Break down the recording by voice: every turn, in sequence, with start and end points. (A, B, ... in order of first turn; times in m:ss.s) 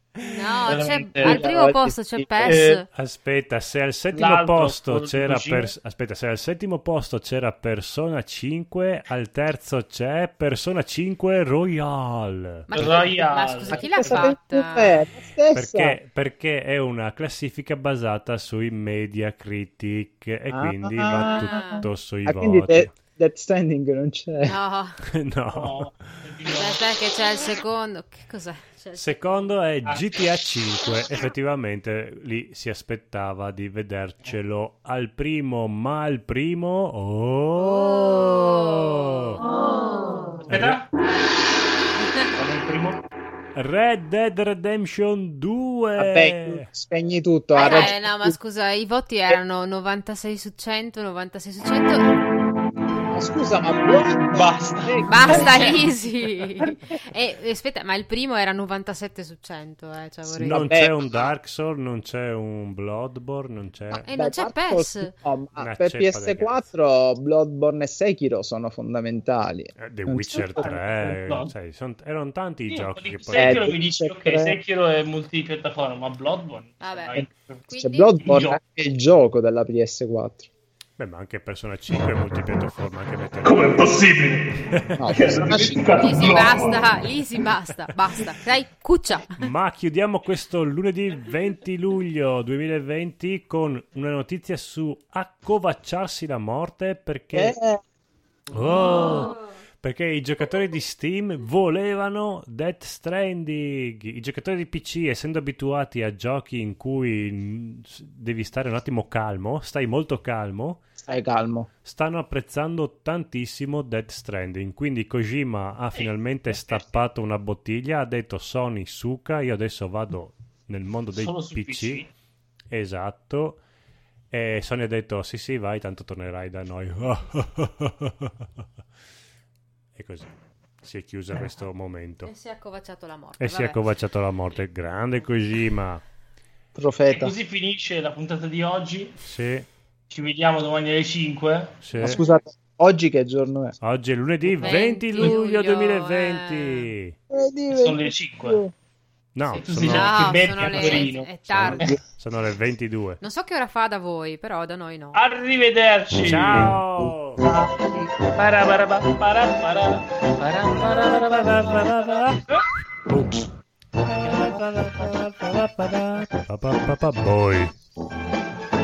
0:00.2-0:02.9 A
0:00.6-0:01.4 B
0:01.2-0:02.6 C
0:02.4-0:02.8 B
0:02.9-0:13.1 D
0:04.1-0:05.7 B
0:12.7-0:15.0 A
0:12.7-0:14.3 B
0:13.7-0:16.0 C
0:15.5-0:22.9 D
0:20.5-0:24.6 C
0:21.1-0:21.9 A
0:24.4-0:25.0 A
0:25.1-0:25.9 D
0:25.5-0:26.8 B
0:26.5-0:29.5 A
0:28.9-0:39.4 D
0:37.6-0:39.3 A
0:40.4-0:40.9 B
0:40.5-0:40.8 D
0:42.0-0:42.3 A
0:42.4-0:43.0 B
0:43.5-0:46.6 D
0:46.0-0:48.4 C
0:47.5-0:52.1 A
0:53.1-0:55.6 C
0:54.2-0:55.8 B
0:55.0-1:00.6 A
0:56.6-0:57.0 B
1:00.2-1:01.1 C
1:00.4-1:04.1 D
1:03.9-1:05.1 A
1:04.0-1:11.2 C
1:05.6-1:06.7 D
1:09.8-1:13.6 D
1:10.3-1:11.5 B
1:12.7-1:17.6 B
1:13.4-1:14.6 C
1:16.8-1:18.3 A
1:17.2-1:20.5 C
1:18.2-1:18.6 B
1:21.0-1:24.0 D
1:23.4-1:26.9 B
1:24.7-1:25.1 D
1:25.0-1:26.1 C
1:25.9-1:29.4 A
1:29.4-1:37.6 D
1:37.3-1:37.8 C
1:38.5-1:50.8 D
1:51.0-1:51.7 C
1:51.8-2:02.0 D
1:55.9-1:57.0 B
2:01.1-2:02.1 B
2:02.7-2:03.6 D
2:04.3-2:08.3 D
2:09.9-2:10.3 D
2:10.8-2:12.3 D
2:12.2-2:13.8 A
2:13.4-2:16.0 D
2:16.8-2:17.3 C
2:17.1-2:19.2 B
2:19.2-2:19.7 D
2:20.1-2:22.2 B
2:21.8-2:22.2 D
2:22.0-2:23.8 C
2:23.8-2:27.2 D
2:24.6-2:25.4 B
2:24.6-2:26.9 A
2:27.3-2:28.7 C
2:27.8-2:28.6 B
2:29.4-2:33.2 D
2:29.6-2:31.3 B
2:29.8-2:32.0 A
2:33.2-2:35.2 A
2:35.1-2:36.8 B
2:36.2-2:37.4 D
2:37.4-2:42.0 B
2:40.9-2:42.4 D
2:43.1-2:43.4 D
2:44.1-2:47.7 D